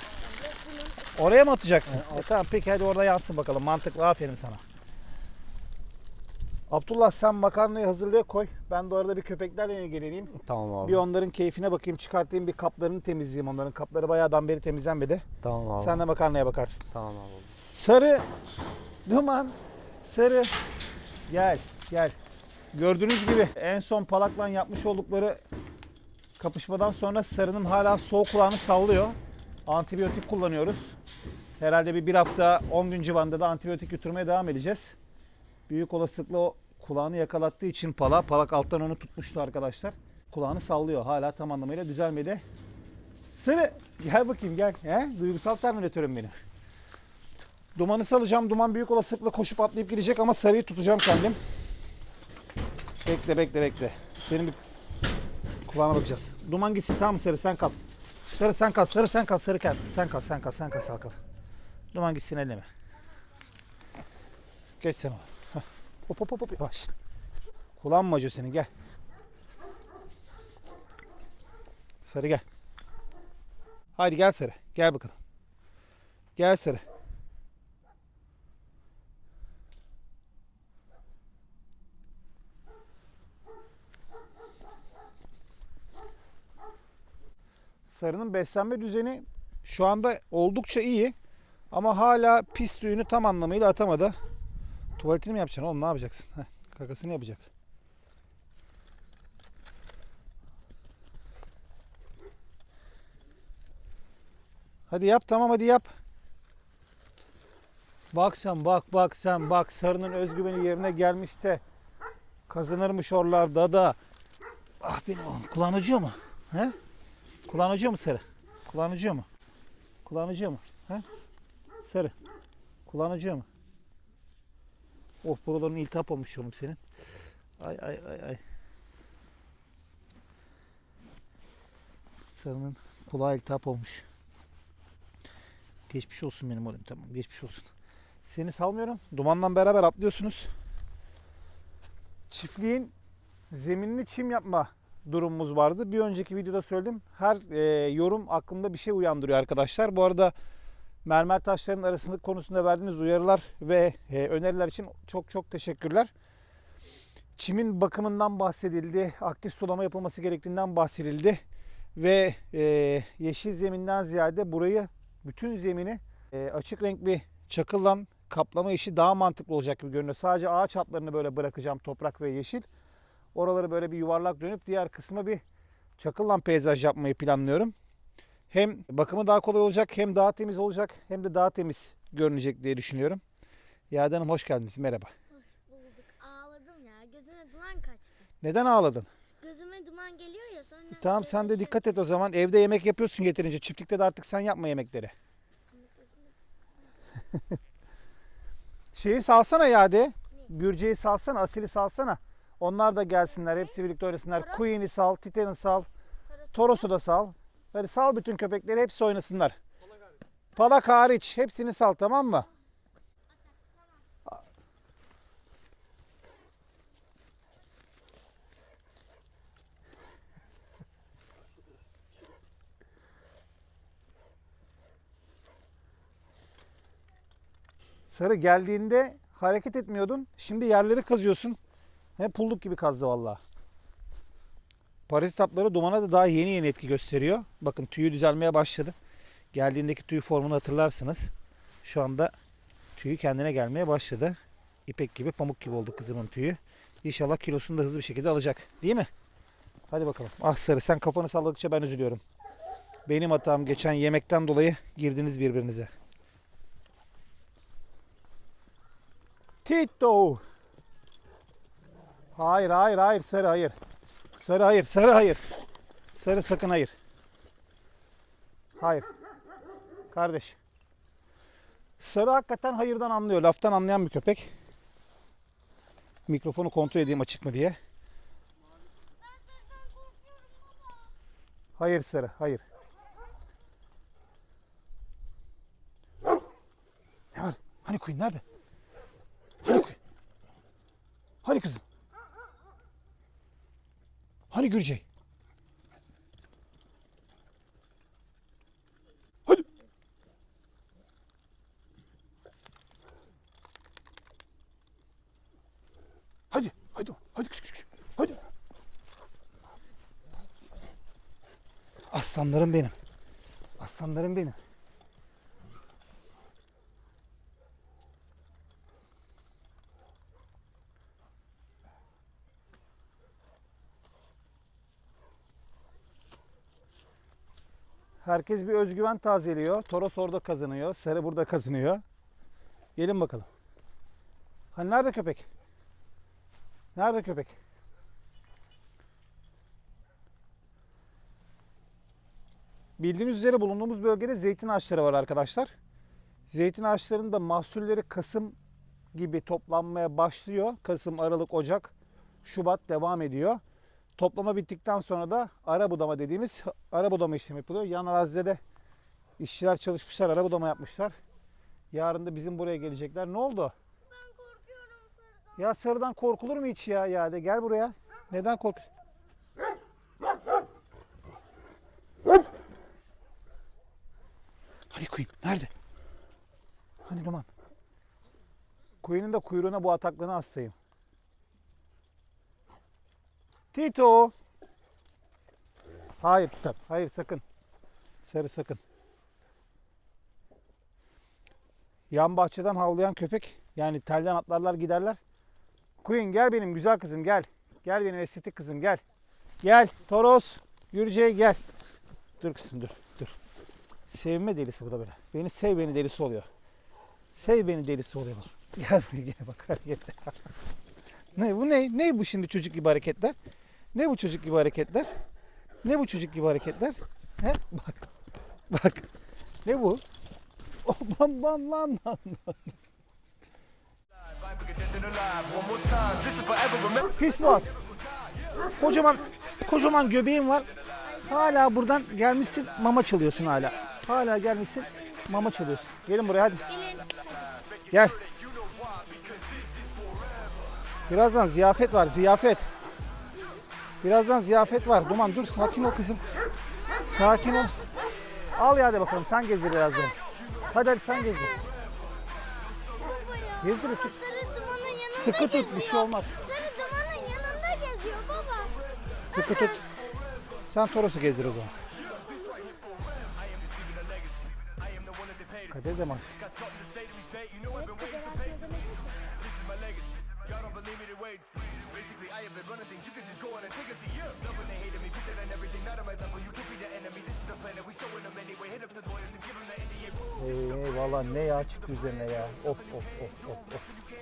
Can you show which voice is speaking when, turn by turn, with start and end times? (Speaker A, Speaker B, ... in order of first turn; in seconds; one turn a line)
Speaker A: 0.2-1.2
Speaker B: 1.2-4.6
Speaker C: 1.9-2.3
Speaker B: 6.7-15.2
Speaker C: 10.4-11.0
Speaker C: 15.4-16.0
Speaker B: 15.8-16.9
Speaker C: 16.9-17.6
Speaker B: 17.7-18.3
Speaker B: 19.1-20.6
Speaker B: 21.3-22.1
Speaker B: 22.7-25.4
Speaker B: 26.4-31.0
Speaker B: 31.6-35.0
Speaker B: 35.7-42.4
Speaker B: 43.4-46.3
Speaker B: 47.8-51.4
Speaker B: 53.0-54.6
Speaker B: 55.6-57.8
Speaker B: 58.3-61.2
Speaker B: 61.9-62.7
Speaker B: 64.8-66.9
Speaker B: 67.8-68.7
Speaker B: 72.0-72.4
Speaker B: 74.0-75.2
Speaker B: 76.4-76.8
Speaker B: 87.9-91.2
Speaker B: 91.7-94.2
Speaker B: 95.0-97.5
Speaker B: 104.9-105.9
Speaker B: 108.1-111.6
Speaker B: 112.5-114.0
Speaker B: 114.8-116.8
Speaker B: 117.5-119.3
Speaker B: 120.0-121.0
Speaker B: 121.8-122.1
Speaker B: 122.9-123.5
Speaker B: 125.2-126.8
Speaker B: 127.6-128.4
Speaker B: 132.3-134.1
Speaker B: 135.9-137.7
Speaker B: 138.2-140.5
Speaker B: 142.3-142.9
Speaker B: 143.5-150.3
Speaker B: 151.1-156.1
Speaker B: 157.4-161.4
Speaker B: 162.0-172.7
Speaker B: 173.3-175.4
Speaker B: 176.0-177.8
Speaker B: 178.5-183.2
Speaker B: 183.9-185.1
Speaker A: 185.3-188.3
Speaker B: 188.4-189.1
Speaker A: 189.4-192.1
Speaker B: 190.9-195.1
Speaker A: 195.7-196.3
Speaker B: 198.9-205.9
Speaker A: 203.3-203.8
Speaker A: 204.3-204.7
Speaker A: 206.3-206.9
Speaker B: 206.5-209.6
Speaker B: 210.6-212.5
Speaker B: 228.1-231.6
Speaker B: 232.2-233.4
Speaker B: 235.1-238.9
Speaker B: 239.5-241.3
Speaker B: 241.8-242.3
Speaker B: 243.0-249.1
Speaker B: 249.9-252.2
Speaker B: 253.1-255.9
Speaker B: 259.6-260.4
Speaker B: 262.4-263.8
Speaker B: 264.4-265.5
Speaker B: 266.1-266.9
Speaker B: 268.8-269.1
Speaker B: 270.1-270.6
Speaker B: 272.0-274.5
Speaker B: 276.3-277.8
Speaker A: 279.2-281.1
Speaker B: 281.8-282.6
Speaker B: 287.3-288.4
Speaker B: 289.6-290.0
Speaker B: 291.4-291.8
Speaker B: 294.5-295.0
Speaker B: 306.5-308.4
Speaker B: 312.1-312.9
Speaker B: 313.8-314.6
Speaker B: 328.2-332.0
Speaker B: 333.0-333.5
Speaker B: 334.7-335.5
Speaker B: 337.0-337.6
Speaker B: 343.0-345.7
Speaker B: 346.5-348.6
Speaker B: 349.1-351.9
Speaker B: 352.4-353.6
Speaker B: 354.2-358.6
Speaker B: 359.4-361.2
Speaker B: 361.9-363.7
Speaker A: 364.1-365.6
Speaker B: 365.6-368.9
Speaker B: 374.9-375.7
Speaker B: 377.1-377.5
Speaker B: 379.0-380.8
Speaker B: 383.7-384.3
Speaker B: 386.2-387.4
Speaker B: 388.2-388.8
Speaker B: 392.1-395.2
Speaker B: 396.0-399.0
Speaker B: 399.6-401.6
Speaker B: 402.4-403.3
Speaker B: 404.1-406.5
Speaker B: 407.3-410.4
Speaker B: 411.4-413.4
Speaker B: 413.9-415.1
Speaker B: 415.8-418.1
Speaker B: 418.7-419.1
Speaker B: 419.6-420.0
Speaker B: 420.8-422.7
Speaker D: 424.2-428.8
Speaker B: 427.2-427.8
Speaker B: 428.8-430.7
Speaker A: 431.0-431.7
Speaker B: 431.3-436.6
Speaker A: 436.7-437.5
Speaker D: 437.7-440.7
Speaker B: 437.9-438.2
Speaker B: 441.1-442.7
Speaker B: 444.0-446.2
Speaker A: 446.9-448.2
Speaker B: 447.1-447.7
Speaker B: 448.5-450.2
Speaker B: 450.7-451.6
Speaker A: 451.3-451.6
Speaker A: 453.0-458.8
Speaker B: 453.6-454.1
Speaker B: 455.2-456.4
Speaker B: 459.3-459.8
Speaker A: 459.3-459.8
Speaker B: 460.7-461.7
Speaker D: 461.9-468.7
Speaker B: 465.7-466.4
Speaker A: 467.7-469.2
Speaker D: 469.2-480.3
Speaker B: 480.4-483.9